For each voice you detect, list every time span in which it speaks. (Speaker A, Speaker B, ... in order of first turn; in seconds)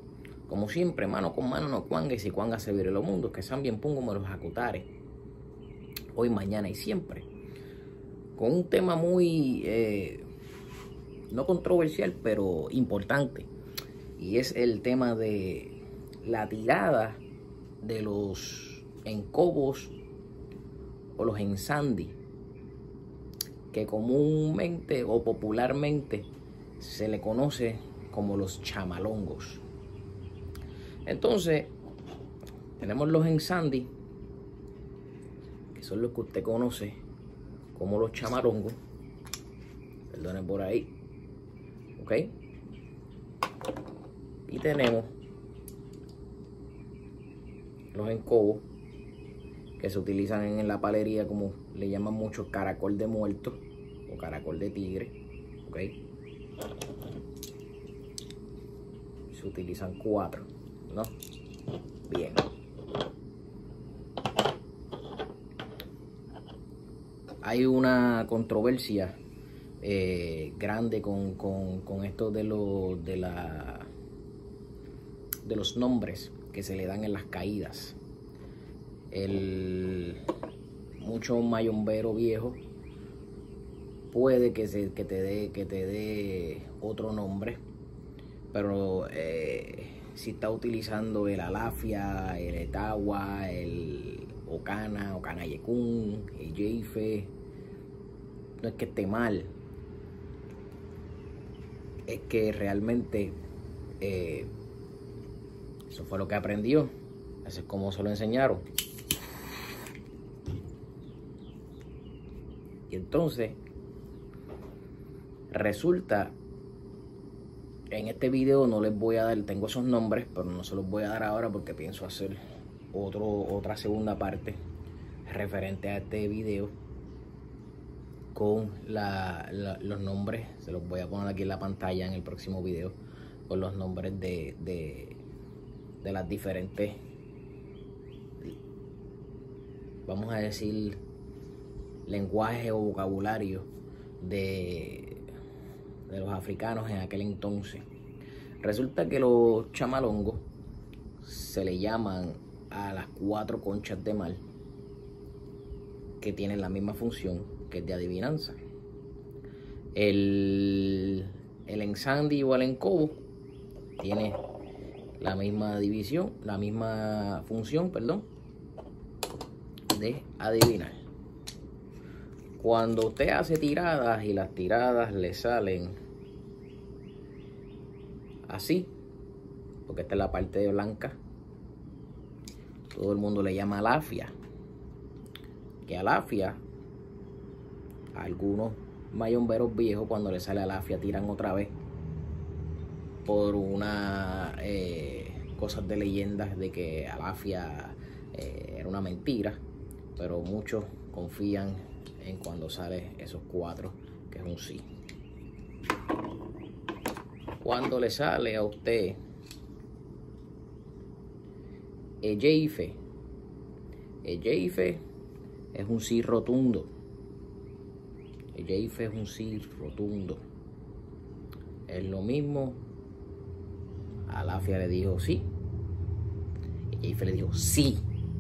Speaker A: 0.5-4.9, 6.1-7.3, 8.3-10.2, 11.3-13.5, 14.2-17.2, 17.8-19.9, 21.2-22.2, 23.7-29.6, 31.1-31.7, 32.8-33.9, 35.7-37.0, 37.7-38.8, 40.1-40.9, 42.0-42.3, 44.5-45.1, 47.9-48.6, 49.8-56.0, 59.3-61.1, 62.1-62.5, 67.4-69.2, 69.8-73.9, 75.4-78.0, 79.1-80.2, 81.0-82.6, 84.1-87.6, 88.5-97.3, 98.6-99.5, 102.1-103.4, 104.0-104.5, 105.9-106.9, 107.4-108.6, 112.9-113.6, 115.5-116.3, 117.9-122.4, 122.9-124.6, 125.2-126.7, 128.3-133.0, 133.5-135.2, 136.0-137.0, 140.1-141.0, 142.1-143.7, 144.2-145.2, 146.1-147.8, 148.6-150.4, 151.2-154.4, 156.2-158.6, 159.9-163.2, 164.0-164.4, 165.2-168.3, 169.9-171.0, 172.6-175.9, 178.5-178.9, 179.8-181.2, 182.9-184.3, 185.8-186.6, 188.1-191.7, 193.2-199.6, 200.2-204.8, 207.6-209.2, 212.2-213.0, 214.2-215.0, 215.7-216.9, 218.5-220.4, 221.9-222.8, 224.3-225.4, 226.9-228.0